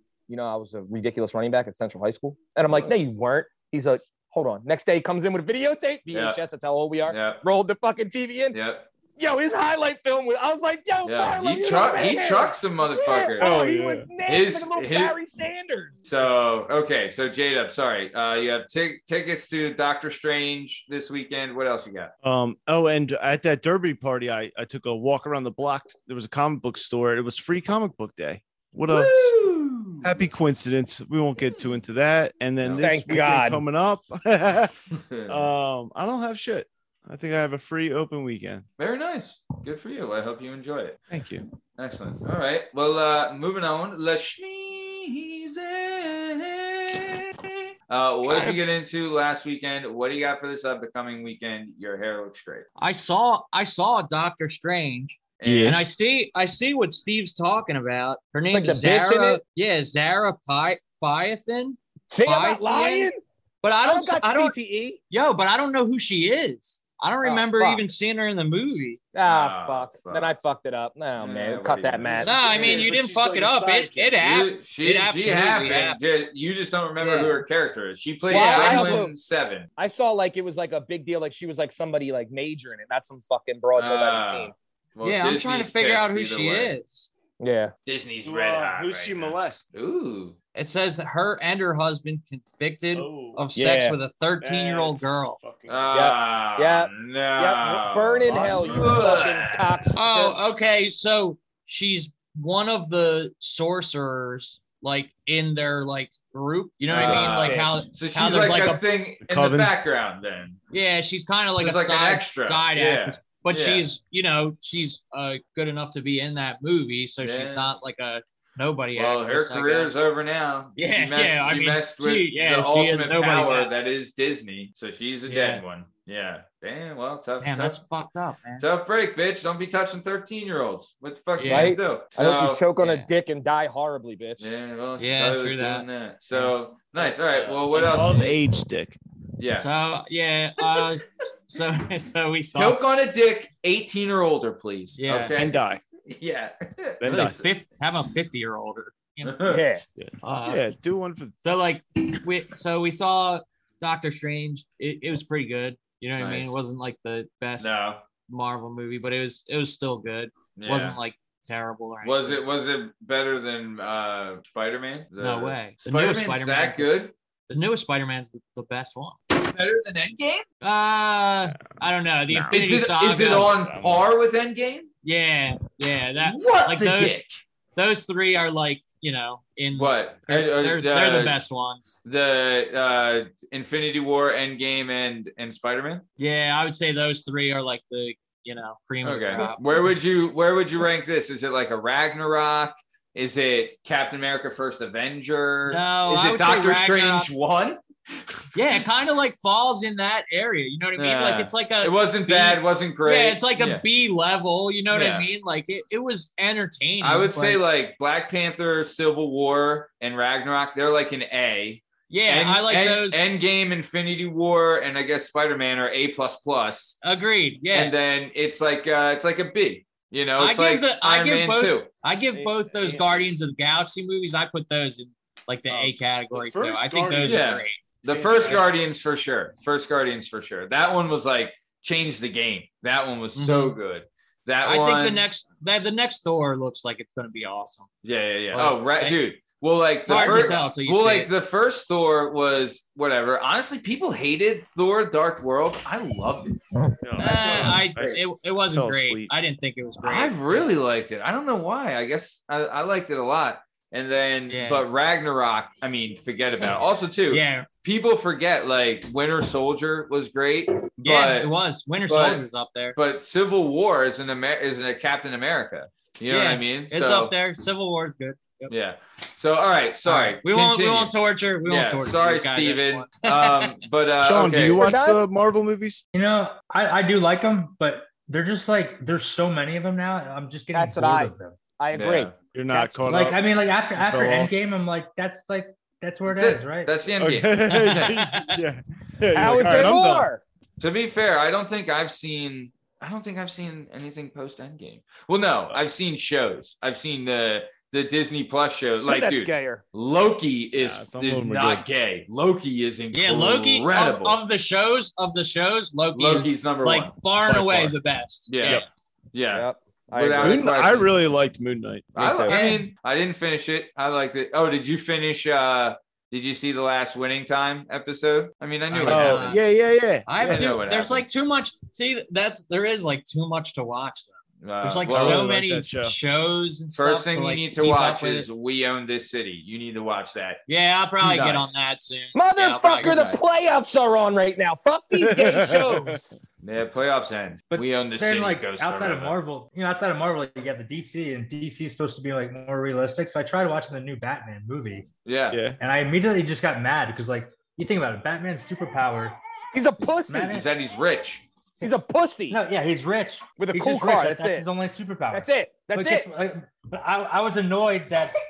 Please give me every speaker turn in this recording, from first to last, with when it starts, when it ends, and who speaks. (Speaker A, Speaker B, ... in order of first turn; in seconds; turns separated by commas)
Speaker A: 0.3-8.6, Speaker B: 2.7-3.1, Speaker B: 6.1-6.4, Speaker B: 7.1-7.4, Speaker B: 8.5-8.9, Speaker A: 9.2-16.0, Speaker B: 11.0-13.5, Speaker C: 13.4-14.1, Speaker B: 14.2-15.2, Speaker B: 16.1-22.1, Speaker C: 22.2-29.4, Speaker B: 28.9-30.2, Speaker C: 30.0-38.7, Speaker B: 32.6-32.9, Speaker A: 32.8-33.6, Speaker B: 34.9-35.5, Speaker B: 38.8-41.0, Speaker C: 41.1-41.5, Speaker B: 41.8-52.7, Speaker A: 48.3-48.6, Speaker D: 52.8-64.6, Speaker B: 55.4-55.8, Speaker C: 55.5-55.9, Speaker A: 58.5-59.4, Speaker A: 62.1-63.2, Speaker A: 63.9-65.0, Speaker D: 65.1-69.0, Speaker A: 67.2-67.9, Speaker A: 69.1-72.3, Speaker B: 69.3-70.3, Speaker B: 71.2-72.9, Speaker C: 72.2-74.2, Speaker D: 72.2-76.0, Speaker B: 74.2-79.7, Speaker D: 77.0-77.5, Speaker A: 78.3-79.1, Speaker D: 78.3-79.1, Speaker A: 79.8-84.5, Speaker B: 83.8-86.7, Speaker D: 85.0-87.1, Speaker A: 87.4-87.7, Speaker B: 87.9-90.4, Speaker C: 88.2-89.6, Speaker D: 90.5-95.4, Speaker C: 92.9-93.5, Speaker A: 93.5-94.0, Speaker C: 94.4-96.0, Speaker B: 95.7-99.9, Speaker A: 95.9-100.4, Speaker C: 98.3-99.2, Speaker D: 100.0-108.8, Speaker B: 106.9-110.6, Speaker C: 106.9-107.8, Speaker C: 109.2-109.7, Speaker D: 110.7-120.0, Speaker B: 111.6-113.9, Speaker B: 117.2-117.7, Speaker B: 119.0-127.8, Speaker D: 120.8-123.7, Speaker D: 125.3-125.6, Speaker D: 127.4-128.7, Speaker B: 128.6-132.6, Speaker D: 131.4-131.8, Speaker A: 131.5-134.5, Speaker D: 132.8-133.1, Speaker B: 134.4-138.4, Speaker D: 135.0-136.5, Speaker D: 137.4-138.0, Speaker C: 137.7-139.0, Speaker B: 139.4-139.7, Speaker D: 139.5-142.8, Speaker B: 142.6-145.5, Speaker D: 145.0-145.4, Speaker C: 145.3-145.8, Speaker B: 146.1-147.5, Speaker C: 147.0-147.4, Speaker D: 147.1-149.5, Speaker B: 149.2-149.7, Speaker A: 149.5-149.8, Speaker C: 150.0-151.4, Speaker D: 150.2-150.7, Speaker D: 151.4-157.8, Speaker B: 156.2-156.6, Speaker B: 157.6-158.0, Speaker D: 158.3-162.4, Speaker B: 160.6-161.0, Speaker B: 162.0-167.1, Speaker D: 165.2-166.9, Speaker D: 167.5-169.2, Speaker B: 169.3-170.4, Speaker D: 170.6-173.6, Speaker C: 171.5-171.8, Speaker C: 172.3-172.6, Speaker B: 172.5-174.9, Speaker C: 173.3-174.1, Speaker D: 175.0-182.0, Speaker B: 176.2-177.4, Speaker B: 179.8-181.4, Speaker B: 182.1-186.0, Speaker D: 186.2-189.9, Speaker B: 189.0-198.8, Speaker D: 195.7-197.3, Speaker D: 198.6-207.6, Speaker B: 201.0-203.8, Speaker B: 204.9-205.3, Speaker B: 207.0-217.0, Speaker D: 212.1-213.2, Speaker D: 217.0-217.9, Speaker B: 217.7-221.9, Speaker D: 220.4-227.9, Speaker C: 222.3-223.3, Speaker C: 225.7-228.7, Speaker B: 227.2-235.2, Speaker D: 233.4-233.8, Speaker D: 234.6-237.9, Speaker B: 238.0-246.6, Speaker D: 238.5-239.2, Speaker D: 240.1-241.3, Speaker C: 240.1-240.6, Speaker C: 247.0-249.3, Speaker D: 247.2-250.7, Speaker B: 250.0-261.5, Speaker D: 254.5-254.9, Speaker D: 257.3-257.7, Speaker D: 261.0-263.0, Speaker B: 262.1-267.3, Speaker D: 266.3-268.7, Speaker B: 268.7-274.9, Speaker D: 270.1-273.8, Speaker C: 274.2-276.0, Speaker A: 274.8-275.2, Speaker E: 276.1-281.6, Speaker A: 280.7-283.0, Speaker B: 281.9-282.4, Speaker C: 282.5-284.6, Speaker E: 283.1-286.9, Speaker B: 286.3-288.1, Speaker C: 287.2-290.3, Speaker D: 287.7-288.6, Speaker A: 289.3-290.4, Speaker B: 290.8-304.4, Speaker A: 299.1-299.8, Speaker C: 300.8-301.9, Speaker D: 303.1-308.9, Speaker B: 306.1-307.1, Speaker C: 307.5-308.0, Speaker B: 308.5-311.2, Speaker A: 309.5-310.8, Speaker C: 310.4-312.5, Speaker B: 312.1-319.6, Speaker D: 312.5-312.9, Speaker D: 318.9-319.6, Speaker C: 319.0-320.8, Speaker D: 320.3-328.5, Speaker B: 320.4-321.2, Speaker B: 324.6-325.5, Speaker C: 325.1-326.2, Speaker B: 326.9-330.6, Speaker D: 330.7-333.3, Speaker B: 331.2-331.6, Speaker A: 332.3-336.4, Speaker B: 333.0-333.4, Speaker C: 335.1-336.2, Speaker B: 336.6-339.4, Speaker E: 337.7-345.1, Speaker B: 345.3-345.6, Speaker C: 345.5-345.8, Speaker E: 345.8-349.4, Speaker A: 349.7-350.6, Speaker B: 350.0-351.4, Speaker E: 350.3-350.7, Speaker A: 351.8-352.6, Speaker E: 352.5-358.4, Speaker A: 353.6-354.6, Speaker A: 355.3-356.3